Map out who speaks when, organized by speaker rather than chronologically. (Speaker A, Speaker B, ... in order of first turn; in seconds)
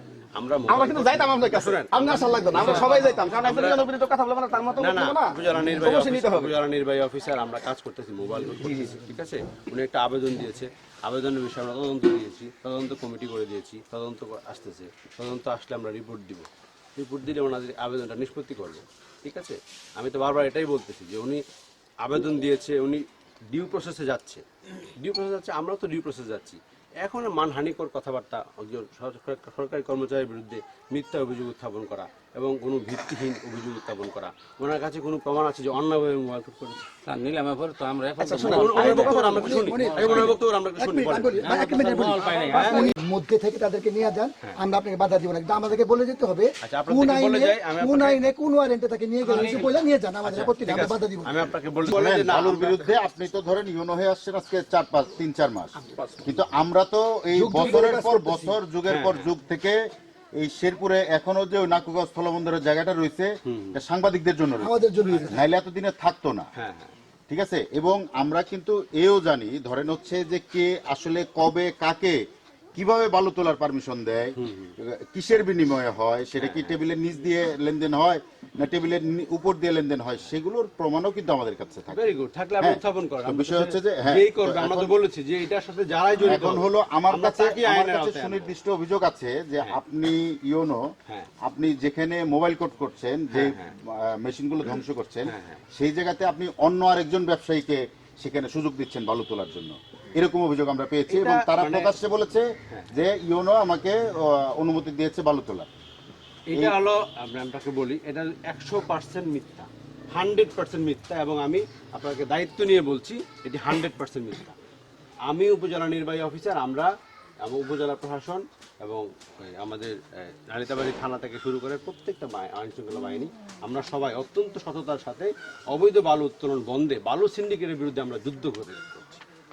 Speaker A: 0.4-3.9, 4.8-21.4, 22.0-24.4, 25.0-36.9, 38.3-41.8, 42.5-42.9, 46.6-48.2, 49.3-49.7, 50.2-53.1, 56.0-56.4, 58.9-59.3, 63.5-63.8, 66.6-66.9, 74.4-74.7, 76.3-76.9, 81.9-88.6, 93.3-93.7, 95.3-95.6, 101.1-102.0, 106.5-114.6, 115.3-116.9, 117.4-129.2
Speaker B: 0.7-6.5, 8.6-9.0, 38.2-39.5
Speaker C: 37.0-40.4, 41.4-42.9, 49.3-49.7
Speaker D: 39.2-51.9, 57.4-58.6, 64.6-65.5
Speaker E: 51.9-64.8, 65.3-66.5, 67.3-72.2, 72.8-82.1, 82.6-85.0, 86.2-90.8, 91.4-105.7